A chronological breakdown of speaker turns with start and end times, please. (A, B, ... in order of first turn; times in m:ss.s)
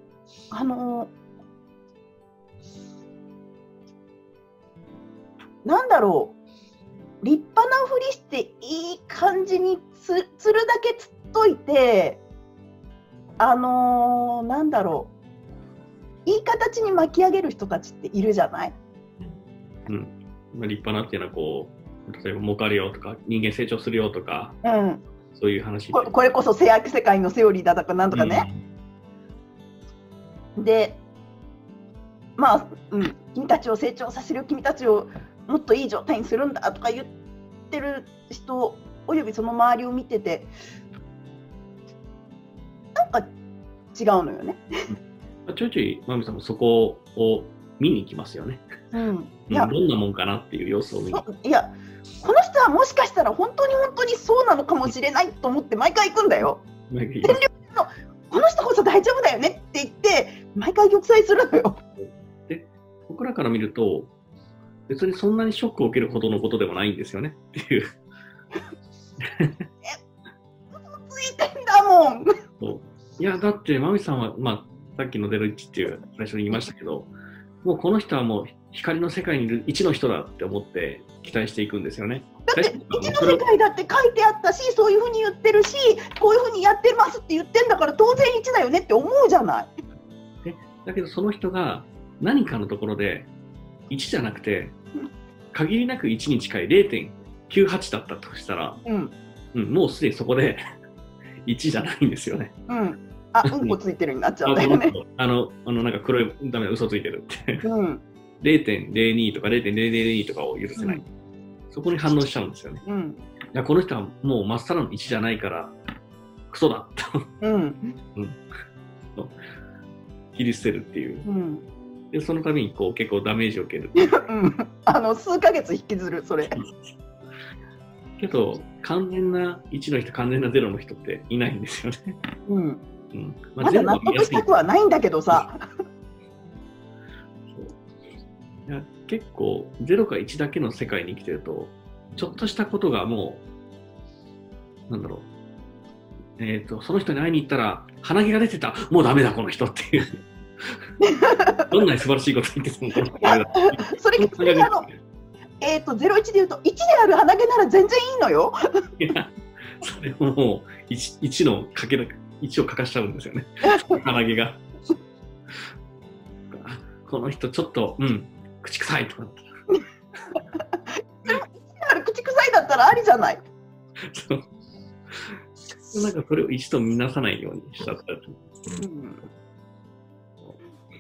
0:00.5-0:01.1 A
0:05.6-0:06.4 A
0:07.2-0:12.2 A
0:13.4-0:15.1 A
0:16.3-0:18.8 A
0:19.9-0:24.6 B
0:24.6-0:25.0 A
0:25.3-0:26.1 B
0:25.9-0:28.5 A
0:28.1-0:28.6 B
0:30.6-0:31.0 A
0:32.4-0:37.1 A
0:37.7-0:40.5 A
0:43.0-0:43.3 A
0:43.9-0:44.6 A
0:45.5-0:48.6 B
0:48.9-0:49.7 A
0:49.5-0:51.3 B
0:51.1-0:56.6 A
0:56.9-0:57.4 B
0:57.2-1:01.8 A
1:02.0-1:04.1 B
1:04.9-1:07.9 B
1:09.2-1:09.6 B
1:10.7-1:12.3 A
1:12.6-1:17.1 B
1:17.6-1:23.4 B
1:22.5-1:29.7 A
1:30.4-1:33.3 B
1:33.9-1:34.8 B
1:35.5-1:38.8 B
1:38.8-1:39.2 A
1:39.5-1:40.6 B
1:41.4-1:42.5 B
1:42.7-1:45.0 A
1:43.4-1:43.8 B
1:44.5-1:47.6 B
1:47.6-1:48.0 A
1:48.4-1:51.1 B
1:50.8-1:51.0 A
1:51.7-1:52.8 B
1:52.8-1:53.2 A
1:53.5-1:55.8 B
1:56.5-1:57.3 B
1:57.4-1:58.0 A
2:00.3-2:01.2 B
2:01.2-2:01.6 A
2:02.1-2:04.1 B
2:04.0-2:06.6 A
2:06.5-2:06.9 B
2:08.2-2:12.2 B
2:12.5-2:12.8 A
2:13.1-2:14.5 B
2:13.6-2:15.6 A
2:17.5-2:17.8 B
2:18.7-2:23.4 B
2:24.9-2:25.3 B
2:26.4-2:30.8 B
2:31.0-2:31.8 A
2:31.7-2:35.0 B
2:33.2-2:34.9 A
2:35.6-2:38.6 A
2:39.0-2:44.6 B
2:43.6-2:44.0 A
2:46.5-2:49.4 B
2:50.6-2:53.4 A
2:54.0-2:54.5 B
2:55.1-2:58.4 B
2:58.8-2:59.3 A